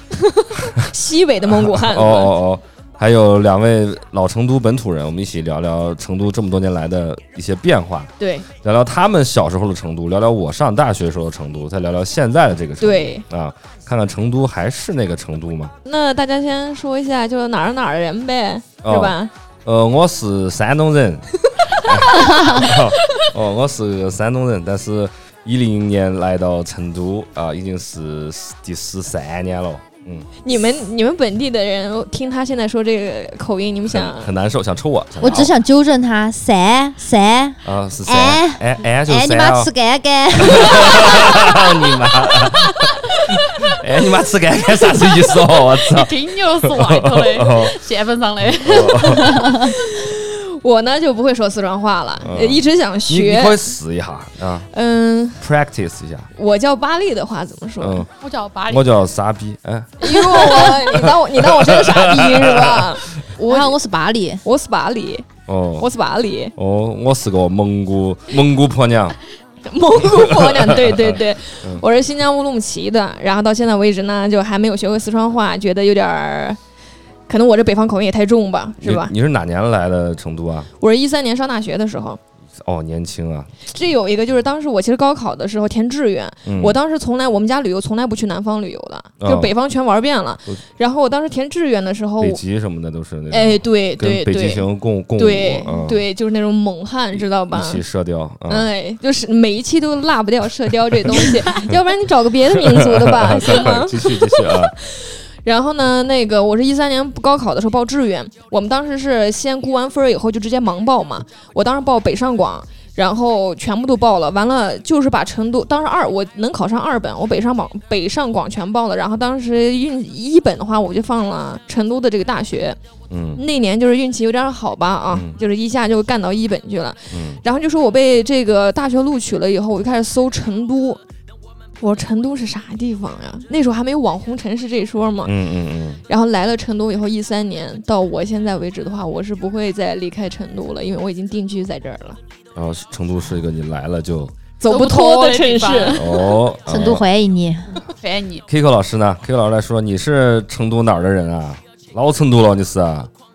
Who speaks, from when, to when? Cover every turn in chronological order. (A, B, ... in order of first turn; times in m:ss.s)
0:00.1-0:02.4 A
0:01.5-0:15.7 B
0:08.2-0:08.5 A
0:12.8-0:13.2 A
0:15.8-0:19.3 A
0:18.8-0:30.3 B
0:30.4-0:34.3 A
0:33.9-0:35.5 B
0:35.2-0:41.5 C
0:37.6-0:39.7 B
0:40.4-0:47.8 B
0:45.8-0:49.5 D
0:48.6-0:49.4 B
0:49.6-0:53.6 A
0:52.2-0:54.7 B
0:54.7-0:55.4 A
0:55.4-0:56.3 B
0:56.3-0:58.0 A
0:57.8-0:58.1 B
0:58.2-0:58.9 D
0:58.7-1:02.9 B
1:00.0-1:03.8 A
1:03.4-1:04.4 C
1:04.4-1:05.3 A
1:05.5-1:05.9 B
1:05.8-1:06.5 A
1:06.6-1:09.2 B
1:09.6-1:16.6 A
1:10.1-1:11.8 B
1:17.3-1:19.1 A
1:18.8-1:20.7 B
1:20.8-1:22.2 A
1:22.6-1:23.5 B
1:23.7-1:32.4 A
1:26.4-1:26.8 B
1:29.2-1:29.5 B
1:32.2-1:36.0 B
1:33.3-1:37.8 A
1:37.5-1:38.7 B
1:38.5-2:02.8 A
1:41.1-1:41.8 B
1:42.4-1:44.7 B
2:03.1-2:03.4 B
2:03.3-2:11.0 A
2:05.1-2:05.4 B
2:07.1-2:07.4 B
2:11.8-2:15.4 A
2:15.2-2:16.0 B
2:16.1-2:22.2 A
2:22.5-2:24.3 B
2:24.6-2:26.1 A
2:24.6-2:26.2 D
2:25.9-2:27.0 B
2:26.7-2:27.8 C
2:27.9-2:28.4 D
2:28.5-2:33.1 B